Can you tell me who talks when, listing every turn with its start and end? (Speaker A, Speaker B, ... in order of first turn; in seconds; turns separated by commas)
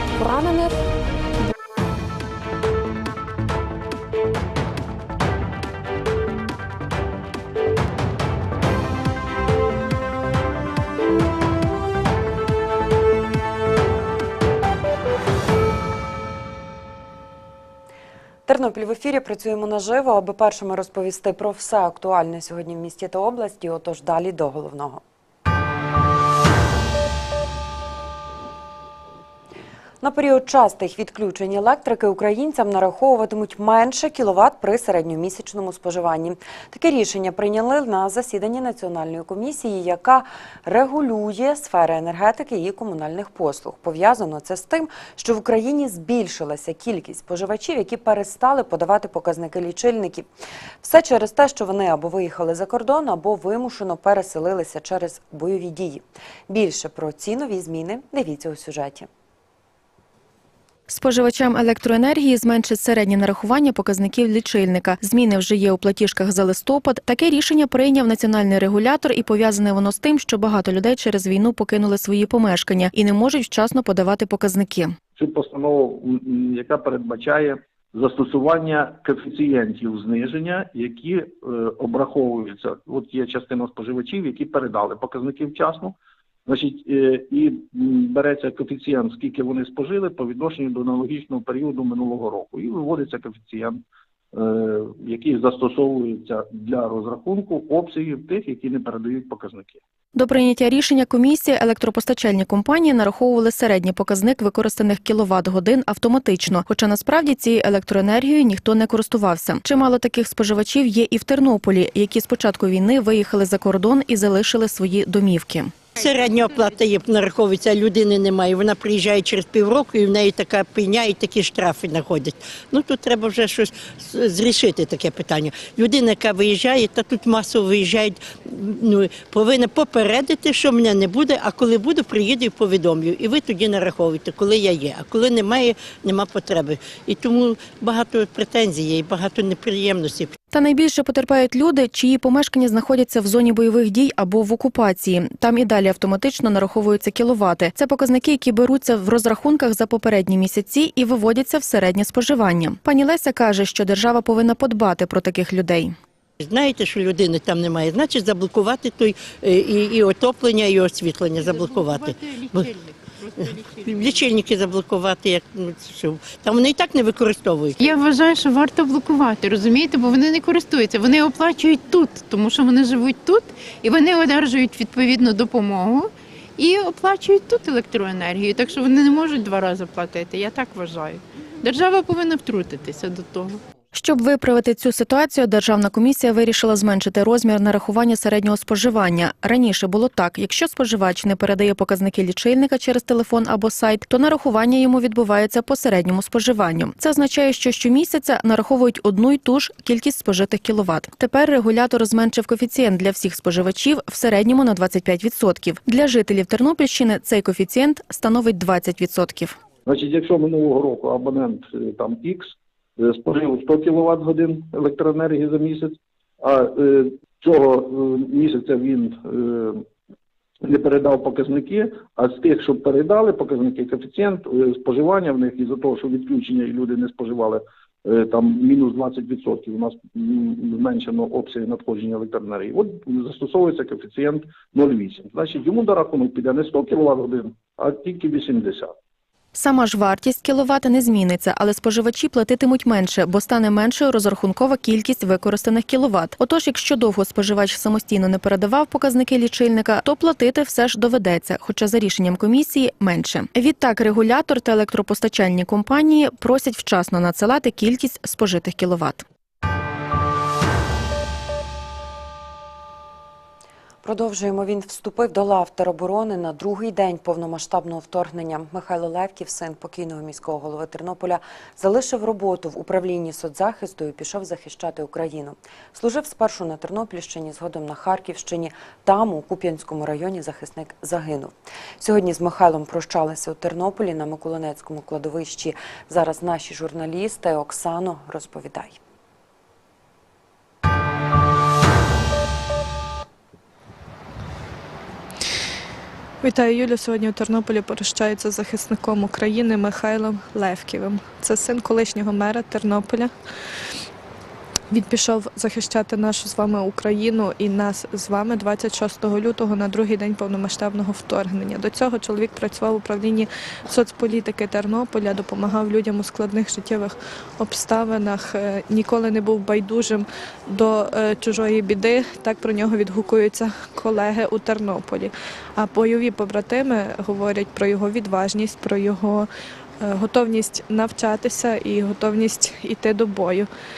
Speaker A: 18.5-25.0, Speaker A: 30.0-50.3, Speaker A: 50.8-59.1, Speaker B: 60.9-74.9, Speaker C: 75.2-85.9, Speaker C: 86.5-93.8, Speaker C: 94.3-99.8, Speaker B: 100.1-115.7, Speaker D: 116.0-140.3, Speaker B: 140.5-155.9, Speaker D: 156.4-162.8, Speaker D: 163.3-167.8, Speaker E: 167.8-176.1, Speaker E: 176.6-183.5, Speaker B: 183.9-209.6, Speaker C: 209.8-219.8, Speaker C: 220.6-238.9, Speaker B: 239.5-259.2, Speaker A: 264.0-289.0, Speaker F: 296.4-303.3, Speaker F: 304.9-329.5, Speaker F: 330.0-333.7